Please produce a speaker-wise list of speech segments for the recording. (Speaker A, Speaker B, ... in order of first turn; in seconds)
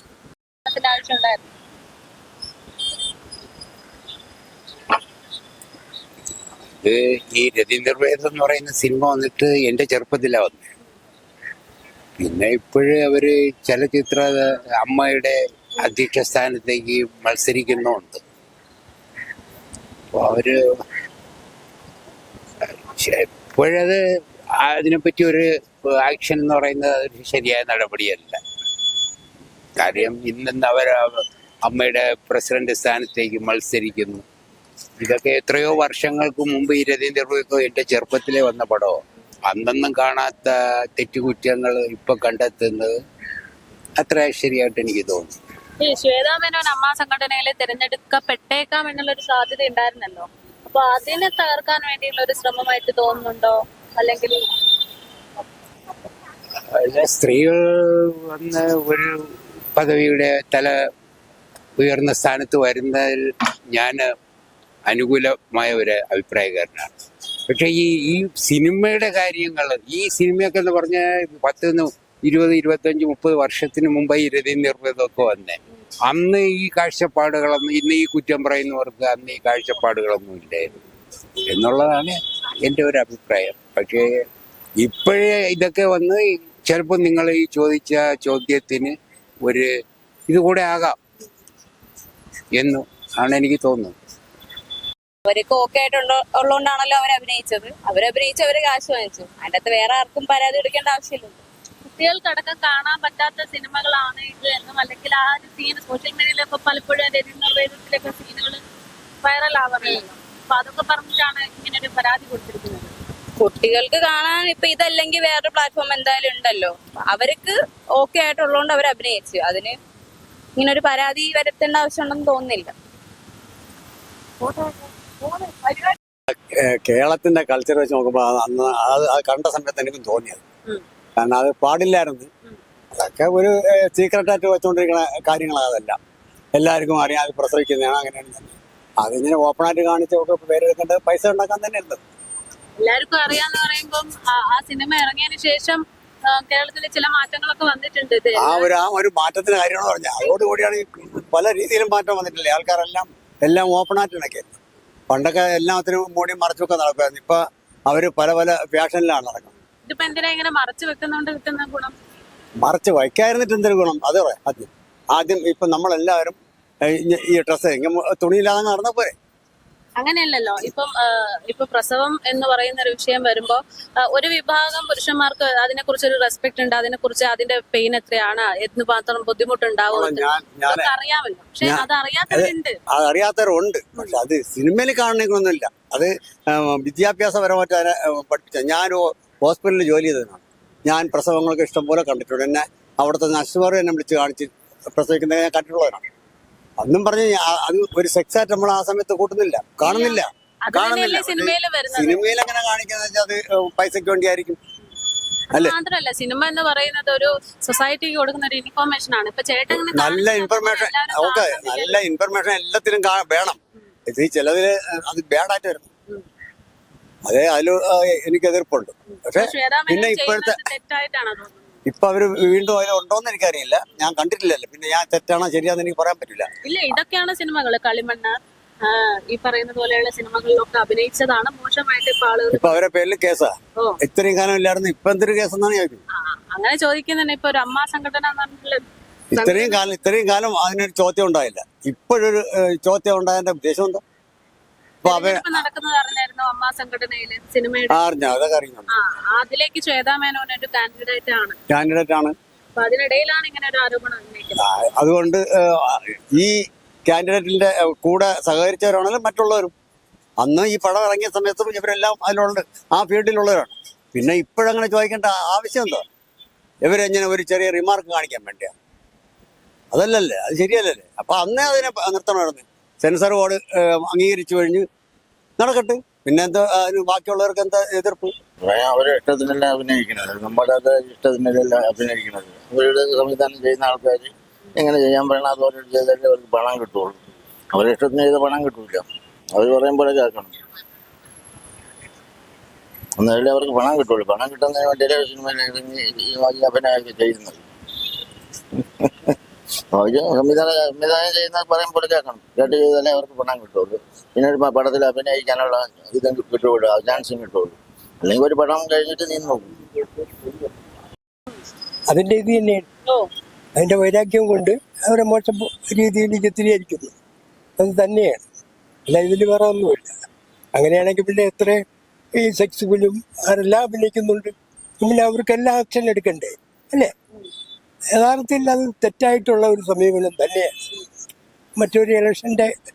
Speaker A: 0.7-1.5, 45.8-54.4, 101.8-108.6, 109.2-112.9, 142.8-148.7, 159.9-161.9, 170.0-182.8, 199.8-202.2, 205.5-212.0, 219.3-221.6, 226.6-232.8, 236.2-238.8, 239.3-239.8, 245.0-248.0, 248.9-251.6, 252.8-254.6
Speaker B: 6.8-10.7, 12.2-18.2, 20.1-20.6, 22.6-24.0, 24.6-28.4, 29.8-34.2, 35.0-42.9, 44.0-45.3, 56.7-59.2, 59.7-60.7, 61.8-63.2, 63.7-64.1, 64.8-66.9, 67.5-80.7, 81.5-84.1, 84.8-89.7, 90.3-91.0, 92.5-93.9
Speaker C: 95.2-101.4, 113.4-119.8, 120.6-122.7, 125.3-125.9
Speaker D: 126.6-130.4, 131.2-132.3, 132.9-136.0, 136.6-142.0, 148.4-154.5, 155.1-159.5, 162.6-169.1, 179.9-180.9, 181.6-196.0, 196.8-204.6, 209.7-215.9, 217.2-220.6, 221.8-226.9, 232.5-236.0, 239.3-244.0, 245.0-245.6, 247.9-248.9, 251.7-252.3, 254.6-256.5, 257.1-259.7, 260.4-266.0, 266.8-268.7, 269.9-274.9, 275.6-278.3
Speaker E: 278.6-287.2, 287.7-290.6, 293.2-297.6, 299.9-309.8
Speaker F: 312.1-312.9, 313.8-317.1, 317.8-318.4, 319.1-320.1, 320.8-321.8, 322.4-327.1, 328.1-330.7, 331.8-332.7